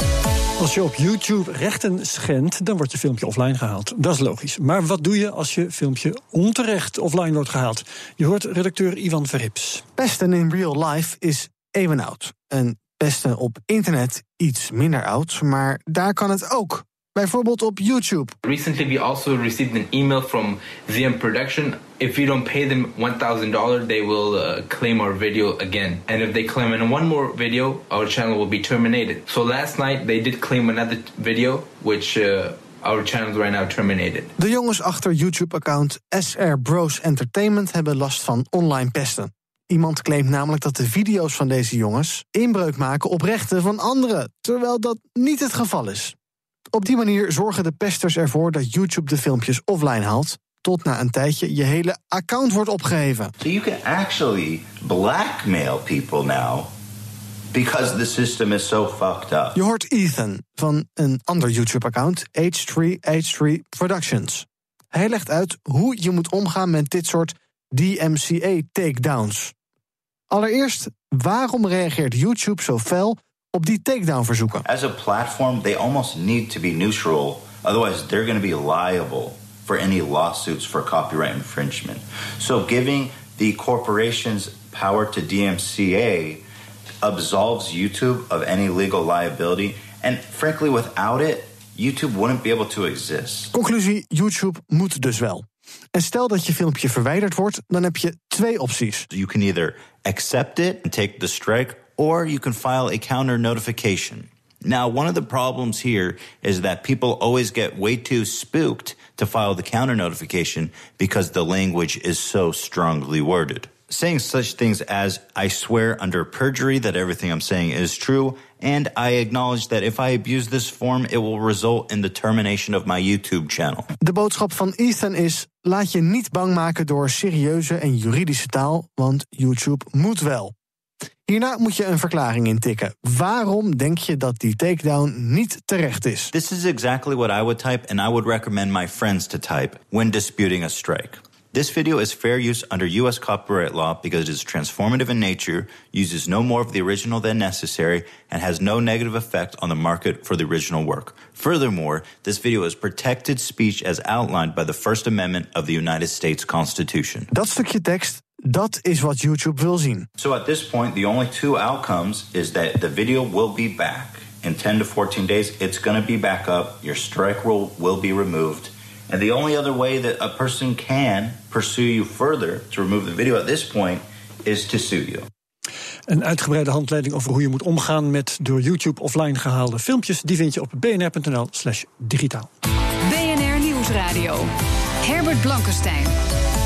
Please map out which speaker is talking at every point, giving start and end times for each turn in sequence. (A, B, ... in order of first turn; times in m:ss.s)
0:00.6-0:09.8 A
0:10.0-0:18.3 B
0:18.4-0:34.3 C
0:34.4-0:46.1 B
0:46.7-0:53.3 B
0:53.4-0:56.7 D
0:57.5-0:59.6 D
0:59.5-1:09.5 B
1:10.3-1:14.6 B
1:14.6-1:26.4 D
1:27.0-1:33.5 D
1:33.5-1:39.1 B
1:39.1-2:03.9 D
2:04.0-2:10.5 B
2:11.2-2:16.3 B
2:16.3-2:37.3 D
2:37.3-2:40.1 B
2:40.2-2:55.3 D
2:56.1-3:02.5 A
3:03.0-3:04.5 E
3:05.0-3:06.1 E